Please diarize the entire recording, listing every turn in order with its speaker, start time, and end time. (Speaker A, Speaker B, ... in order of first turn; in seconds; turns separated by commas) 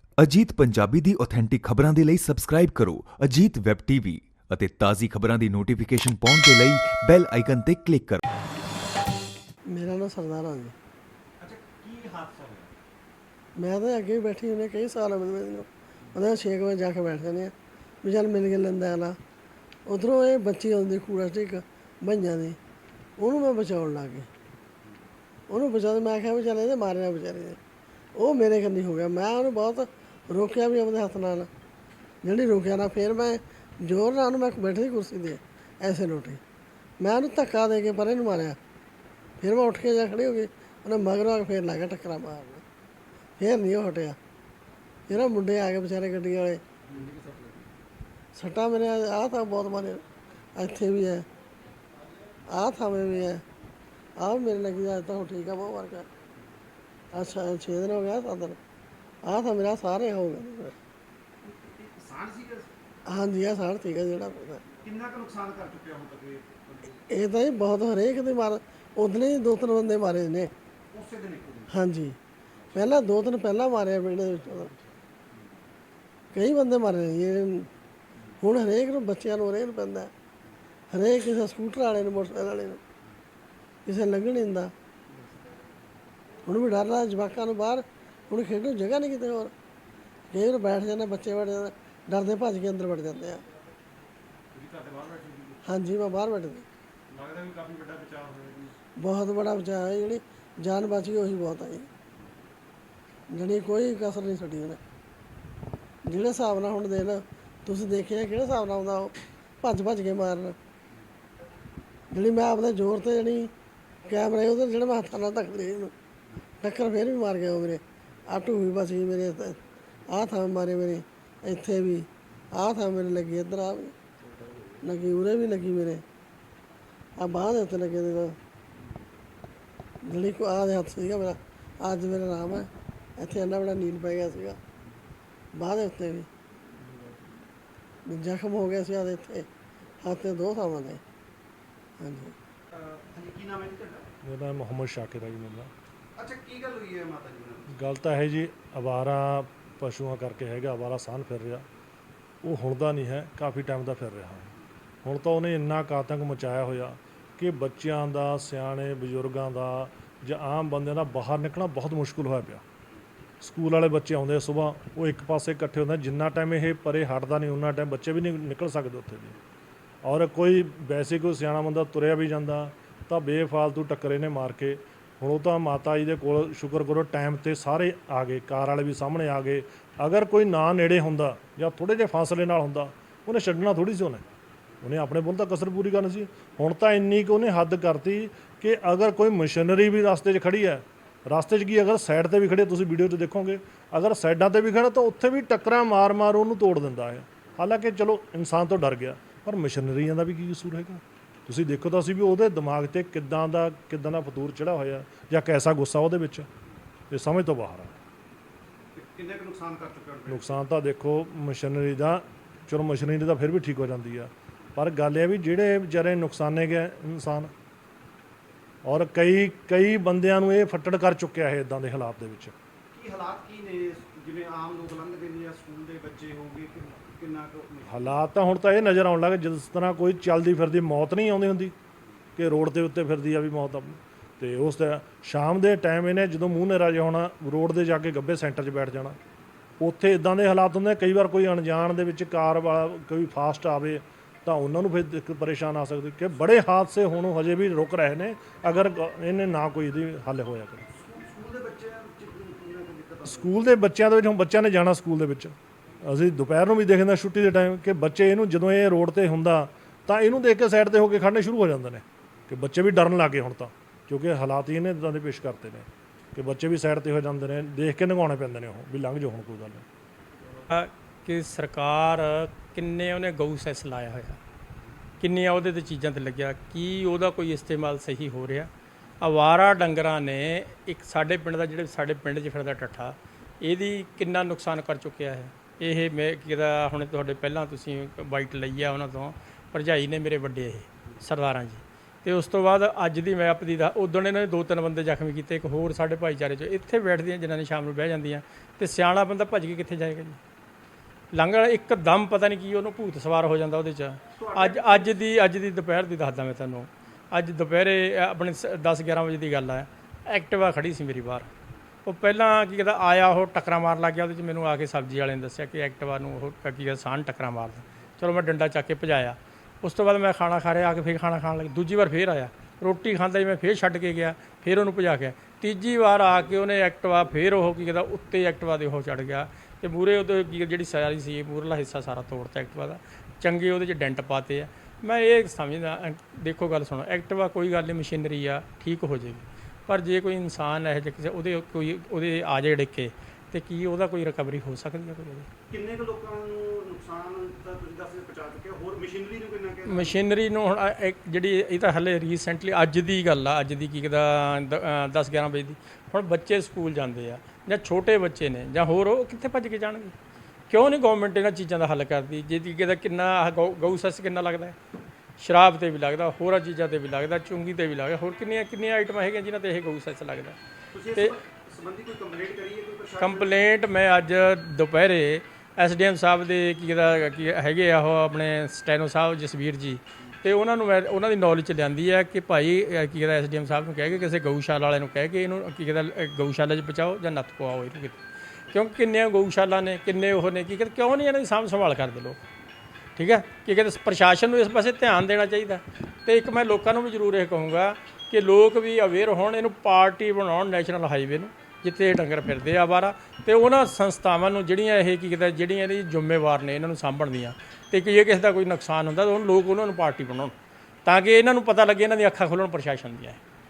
Speaker A: 0.2-8.2, Speaker B: 9.7-10.7, Speaker C: 11.4-12.8, Speaker B: 13.6-19.2, Speaker B: 19.9-22.6, Speaker B: 23.2-24.3, Speaker B: 25.5-27.6, Speaker B: 28.1-31.5, Speaker B: 32.2-36.4, Speaker B: 37.0-38.6, Speaker B: 39.4-42.6, Speaker B: 43.4-44.1, Speaker B: 45.1-46.6, Speaker C: 46.9-47.6, Speaker B: 48.3-50.0, Speaker B: 50.5-51.2, Speaker B: 52.5-53.4, Speaker B: 54.2-56.1, Speaker B: 57.1-58.6, Speaker B: 59.2-60.7, Speaker C: 61.4-62.7, Speaker B: 63.1-64.6, Speaker C: 64.8-66.9, Speaker B: 67.1-70.5, Speaker C: 70.9-71.7, Speaker B: 71.7-72.2, Speaker C: 72.7-73.0, Speaker B: 72.7-74.7, Speaker B: 76.3-77.7, Speaker B: 78.4-80.1, Speaker B: 80.9-82.8, Speaker B: 83.8-84.7, Speaker B: 86.5-89.5, Speaker B: 90.3-93.4, Speaker C: 94.5-95.6, Speaker B: 95.6-96.7, Speaker C: 97.1-98.8, Speaker B: 99.0-101.9, Speaker B: 103.3-104.8, Speaker B: 106.0-110.5, Speaker B: 112.1-113.5, Speaker B: 114.0-115.9, Speaker B: 116.6-119.6, Speaker B: 120.1-123.9, Speaker B: 124.8-126.0, Speaker B: 127.2-128.4, Speaker B: 130.0-132.7, Speaker B: 133.2-134.6, Speaker B: 135.5-136.3, Speaker B: 138.1-139.5, Speaker B: 140.0-141.0, Speaker B: 142.0-142.3, Speaker C: 142.7-144.1, Speaker D: 144.2-145.7, Speaker C: 146.2-147.8, Speaker D: 147.7-151.6, Speaker D: 152.4-162.6, Speaker D: 163.4-169.3, Speaker D: 170.0-184.2, Speaker D: 184.8-206.5, Speaker D: 207.1-208.0, Speaker C: 208.9-210.6, Speaker D: 210.3-217.5, Speaker D: 218.8-222.5, Speaker C: 222.9-228.1, Speaker D: 227.8-231.7, Speaker D: 232.4-239.2, Speaker D: 239.8-250.8, Speaker C: 250.9-253.5, Speaker D: 253.2-269.8, Speaker E: 270.7-274.4, Speaker E: 275.2-278.7, Speaker E: 279.2-300.4, Speaker E: 301.3-311.5, Speaker C: 304.3-305.2, Speaker E: 312.0-345.5, Speaker C: 345.7-350.2, Speaker E: 349.9-360.1, Speaker E: 360.7-364.8, Speaker E: 365.4-370.6, Speaker C: 370.9-373.6, Speaker E: 373.2-388.2, Speaker E: 388.7-392.4, Speaker E: 393.1-410.5, Speaker E: 411.0-413.4